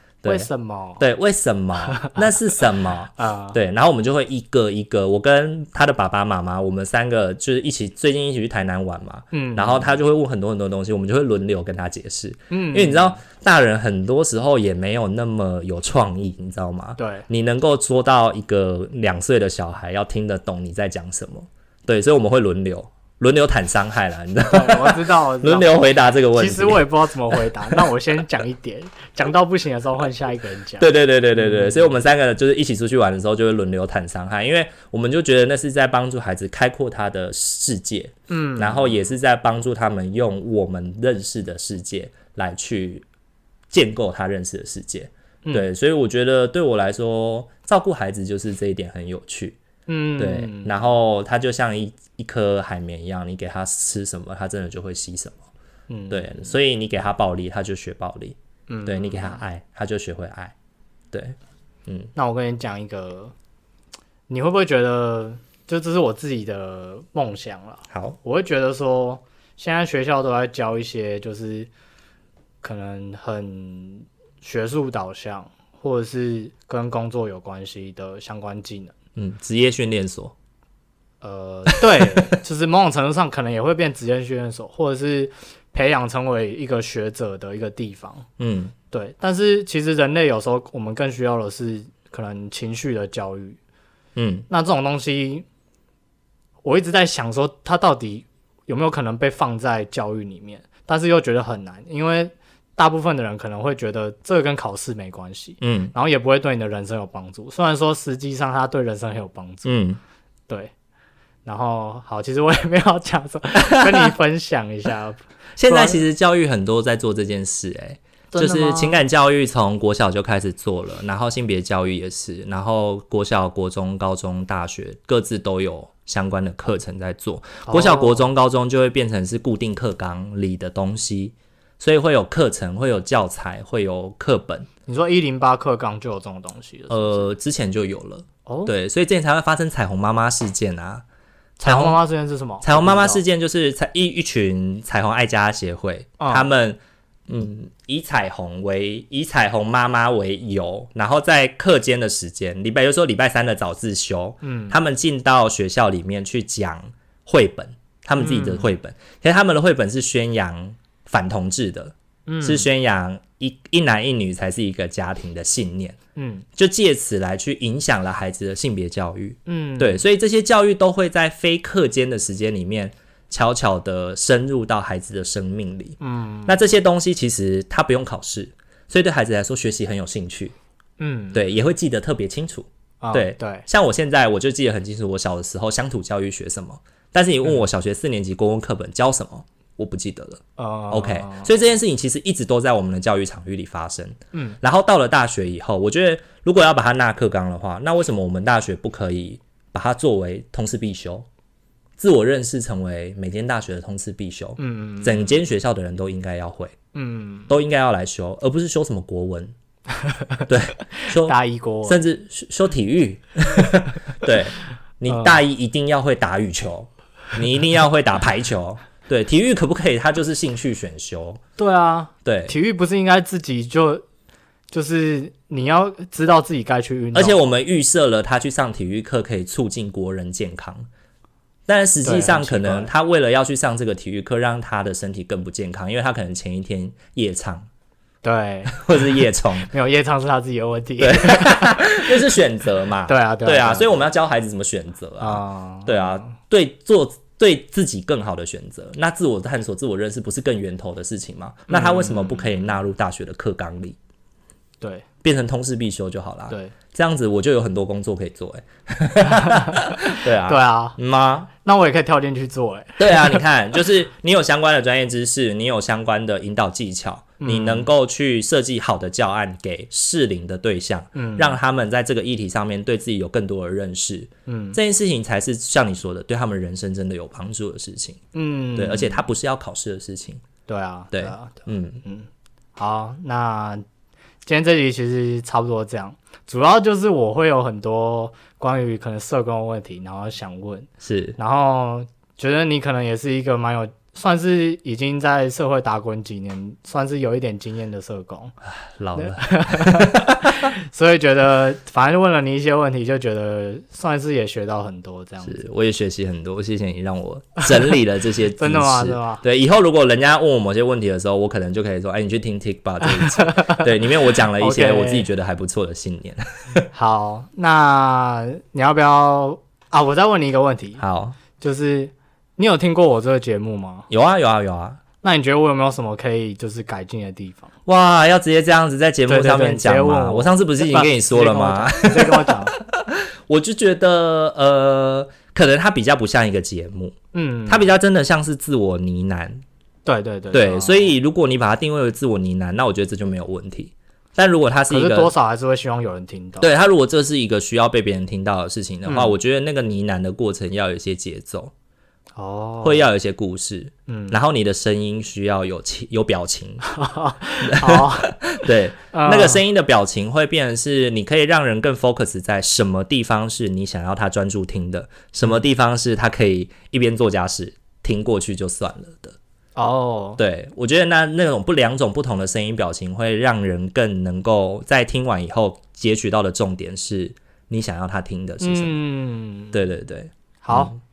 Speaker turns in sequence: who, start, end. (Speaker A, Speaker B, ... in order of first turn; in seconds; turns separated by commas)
Speaker A: 0.2-27.9, Speaker B: 0.2-1.0, Speaker B: 1.8-2.2, Speaker B: 3.2-3.6, Speaker B: 9.3-9.9, Speaker B: 12.5-13.2, Speaker B: 17.0-17.3, Speaker B: 24.5-31.9, Speaker A: 30.8-43.0, Speaker B: 38.3-39.0, Speaker A: 43.7-49.6, Speaker B: 49.9-50.9, Speaker A: 50.2-55.4, Speaker B: 55.9-56.5, Speaker A: 56.1-60.5, Speaker B: 58.7-59.4, Speaker A: 61.1-62.1, Speaker B: 62.1-63.3, Speaker B: 64.3-71.7, Speaker A: 67.9-68.2, Speaker B: 72.6-79.0, Speaker A: 79.2-80.3, Speaker B: 81.2-88.3, Speaker A: 81.7-82.3, Speaker A: 88.4-88.7, Speaker B: 88.9-93.6, Speaker A: 94.2-94.5, Speaker B: 94.5-95.5, Speaker B: 96.6-109.8, Speaker A: 105.6-105.9, Speaker A: 109.7-110.0, Speaker B: 111.5-116.0, Speaker A: 113.6-114.1, Speaker A: 115.6-134.7, Speaker B: 118.3-119.0, Speaker B: 127.7-128.3, Speaker B: 134.9-137.3, Speaker A: 136.9-141.0, Speaker B: 138.5-138.7, Speaker B: 141.6-143.2, Speaker A: 141.6-142.0, Speaker A: 142.6-166.0, Speaker B: 146.2-146.5, Speaker B: 154.4-154.8, Speaker B: 158.2-158.7, Speaker B: 162.3-162.7, Speaker B: 166.2-166.4, Speaker A: 166.6-180.5, Speaker B: 169.5-170.0, Speaker B: 176.0-176.7, Speaker B: 181.0-181.4, Speaker A: 181.3-201.3, Speaker B: 183.0-183.7, Speaker B: 190.6-191.5, Speaker B: 194.3-194.6, Speaker A: 202.0-206.8, Speaker B: 204.6-205.4, Speaker B: 206.9-207.5, Speaker A: 207.5-209.5, Speaker B: 210.0-212.1, Speaker A: 210.5-221.4, Speaker B: 215.1-215.4, Speaker B: 221.6-224.0, Speaker A: 222.2-222.6, Speaker B: 224.7-227.4, Speaker A: 227.1-230.9, Speaker A: 231.7-237.7, Speaker B: 232.0-232.9, Speaker B: 238.2-239.0, Speaker A: 238.7-239.7, Speaker B: 239.7-242.2, Speaker A: 241.0-254.0, Speaker B: 243.1-243.9, Speaker B: 245.2-246.3, Speaker B: 251.7-252.7, Speaker A: 255.2-261.5, Speaker B: 259.3-261.0, Speaker B: 261.6-263.4, Speaker A: 263.0-278.2, Speaker B: 267.4-267.9, Speaker B: 271.1-271.6, Speaker B: 274.5-274.8, Speaker B: 278.3-279.2, Speaker A: 278.8-280.4, Speaker B: 280.7-283.8, Speaker A: 281.1-282.0, Speaker B: 284.4-298.5, Speaker A: 291.0-291.4, Speaker A: 298.9-300.7, Speaker B: 299.2-305.6, Speaker A: 305.4-316.9, Speaker B: 308.6-309.4, Speaker B: 313.0-315.3, Speaker B: 316.9-321.0, Speaker A: 321.0-321.4, Speaker B: 321.6-324.1, Speaker A: 324.1-325.0, Speaker B: 325.2-327.7, Speaker A: 327.9-337.2, Speaker B: 329.3-332.8, Speaker B: 337.3-337.9, Speaker A: 337.7-339.6, Speaker B: 340.1-341.1, Speaker A: 340.5-345.3, Speaker B: 344.9-346.7, Speaker A: 346.6-351.7, Speaker B: 349.1-349.4, Speaker B: 352.4-353.1, Speaker A: 352.8-356.9, Speaker B: 354.1-354.4, Speaker B: 356.8-358.4, Speaker A: 357.6-369.4, Speaker B: 359.1-359.6, Speaker B: 369.8-370.4, Speaker A: 370.4-378.9, Speaker B: 378.6-379.8, Speaker A: 379.7-381.0, Speaker B: 380.6-380.9